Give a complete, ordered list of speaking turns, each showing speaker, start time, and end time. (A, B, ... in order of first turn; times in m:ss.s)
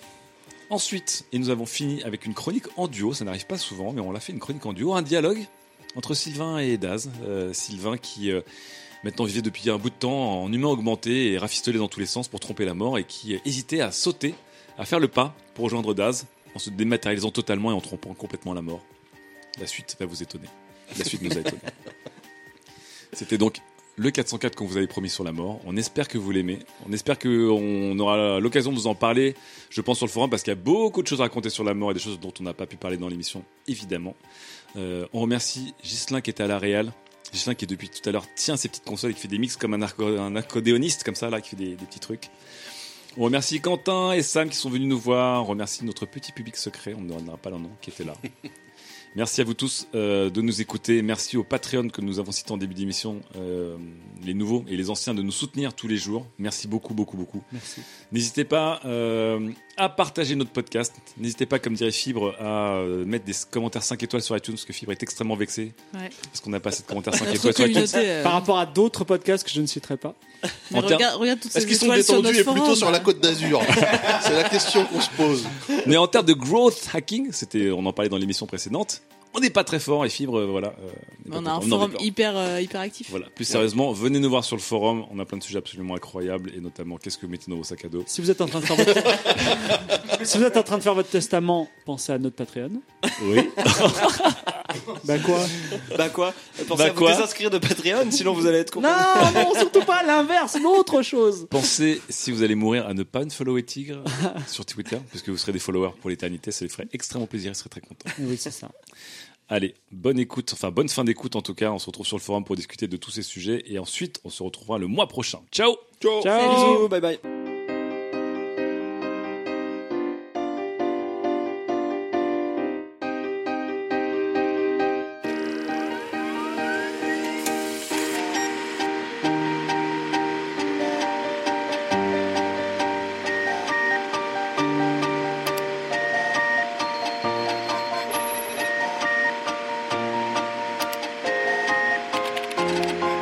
0:00.7-0:08.4 A
0:09.0-0:18.8 A
0:19.6-0:21.7 A
0:23.1-0:34.2 A
0:34.7-0:42.3 A
0:43.2-0:48.2 A
0:49.1-0:57.5 A
0:57.5-0:57.8 B
0:58.1-1:05.8 A
1:06.3-1:08.0 A
1:07.2-1:08.5 C
1:08.2-1:10.2 B
1:10.7-1:13.1 C
1:10.7-1:11.1 A
1:11.5-1:15.7 D
1:13.8-1:14.4 A
1:15.7-1:22.1 A
1:21.3-1:23.1 C
1:23.1-1:28.1 A
1:28.1-1:32.8 B
1:33.2-1:34.8 A
1:35.0-1:35.6 B
1:35.9-1:39.7 E
1:36.7-1:37.3 A
1:38.8-1:41.5 B
1:41.5-1:48.1 A
1:48.2-1:48.7 B
1:49.5-1:55.9 A
1:56.0-1:57.2 E
1:56.2-1:56.9 B
1:56.4-1:56.8 C